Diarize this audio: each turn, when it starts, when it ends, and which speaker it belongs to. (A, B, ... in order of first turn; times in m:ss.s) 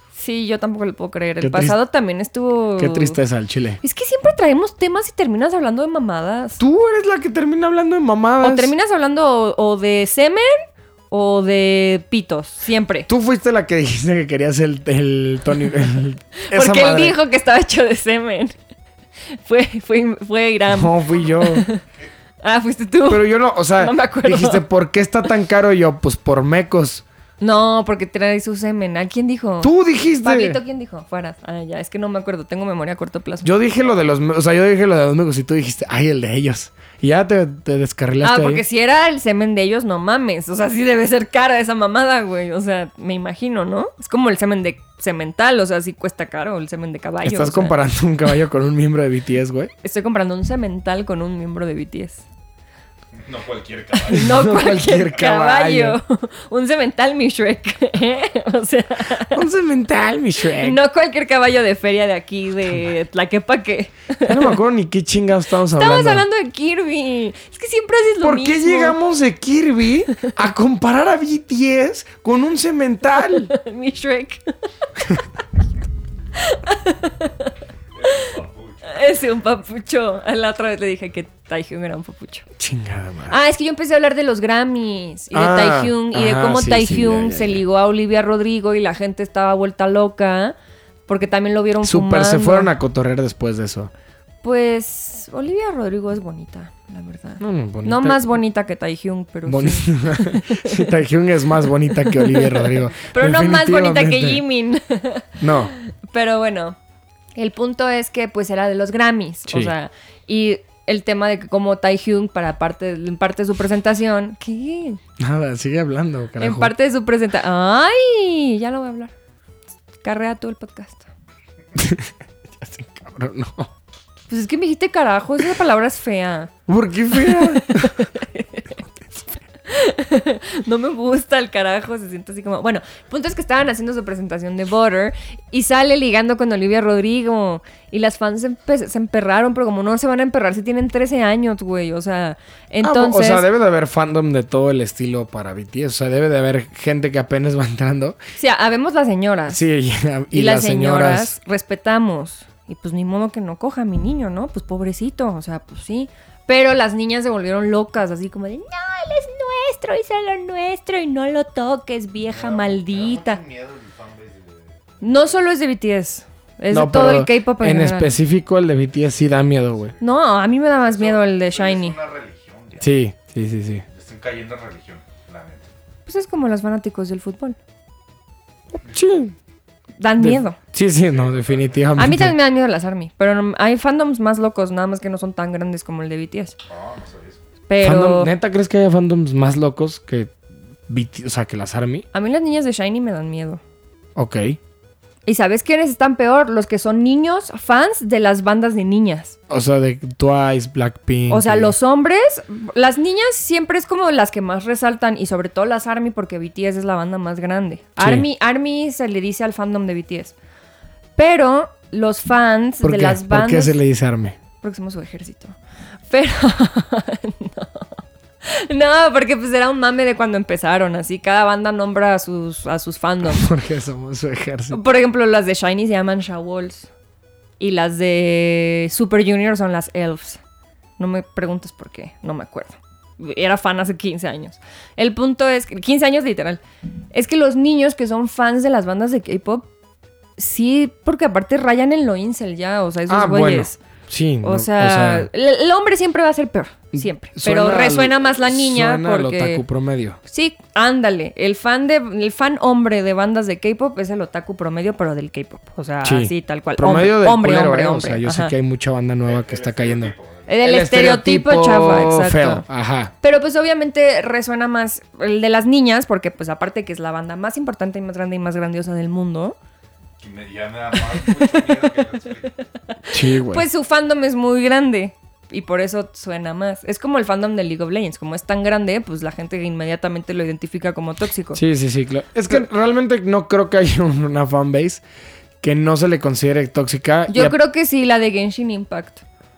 0:00.1-0:03.2 A
0:01.4-0:01.7 B
0:02.8-0:03.8 B
0:03.8-0:06.6 A
0:06.6-0:08.7 B
0:08.4-0:13.1 A
0:13.1-0:17.2 B
0:16.4-0:18.5 A
0:19.3-0:21.8 A
0:20.7-0:21.6 B
0:22.4-0:24.6 A
0:23.1-0:27.0 B
0:27.4-0:33.5 A
0:29.6-0:30.6 B
0:33.4-0:38.6 B
0:38.2-0:47.8 A
0:47.2-0:49.7 B
0:49.8-0:52.2 A
0:53.1-0:54.5 C
0:54.0-0:59.4 A
0:54.1-0:56.0 B
0:59.3-1:00.8 B
1:00.6-1:04.6 A
1:04.2-1:06.2 B
1:05.8-1:09.0 A
1:08.2-1:13.5 B
1:13.2-1:14.4 A
1:16.4-1:17.5 A
1:18.0-1:18.9 C
1:18.0-1:22.4 A
1:22.6-1:23.4 B
1:23.3-1:30.6 A
1:25.3-1:27.6 B
1:31.1-1:32.7 A
1:31.8-1:33.9 B
1:34.4-1:40.9 A
1:37.4-1:38.4 B
1:39.4-1:44.4 B
1:42.0-1:46.8 A
1:45.4-1:45.7 B
1:47.4-1:55.0 A
1:49.5-1:49.7 B
1:55.2-1:56.7 B
1:56.4-1:59.1 A
2:00.0-2:01.1 A
2:01.8-2:03.7 B
2:04.3-2:06.5 A
2:06.7-2:08.1 B
2:07.1-2:08.8 A
2:09.6-2:23.4 A
2:22.8-2:28.2 B
2:28.4-2:29.6 A
2:29.5-2:31.4 B
2:30.3-2:43.4 A
2:42.3-2:45.4 C
2:45.0-2:48.1 A
2:46.7-2:49.9 B
2:49.5-2:50.0 C
2:50.0-2:51.9 A
2:50.7-2:52.9 C
2:52.8-2:53.8 B
2:53.9-2:55.7 C
2:56.0-2:57.6 A
2:58.8-2:59.3 B
3:00.0-3:00.6 A
3:00.2-3:02.3 B
3:01.0-3:02.1 C
3:02.0-3:06.5 A
3:06.7-3:07.4 C
3:07.7-3:08.3 A
3:07.8-3:10.3 B
3:10.9-3:12.0 B
3:12.1-3:13.6 A
3:14.2-3:14.6 B
3:15.2-3:19.4 A
3:19.5-3:21.7 B
3:21.3-3:30.3 A
3:28.0-3:28.2 B
3:31.2-3:33.8 A
3:32.8-3:34.4 B
3:34.6-3:35.6 A
3:36.1-3:37.9 A
3:38.4-3:43.5 A
3:43.2-3:44.8 B
3:44.7-3:46.9 A
3:47.6-3:50.4 A
3:51.0-3:56.6 A
3:57.1-3:59.7 A
4:00.4-4:03.8 A
4:03.1-4:05.3 B
4:04.4-4:09.6 A
4:06.9-4:10.2 B
4:10.2-4:18.5 A
4:16.0-4:23.1 B
4:19.2-4:20.5 C
4:20.5-4:22.6 A
4:23.2-4:29.6 A
4:30.2-4:32.6 C
4:31.1-4:31.8 A
4:33.1-4:33.6 B
4:33.1-4:41.6 A
4:41.5-4:45.0 B
4:45.6-4:47.6 B
4:47.3-4:49.2 A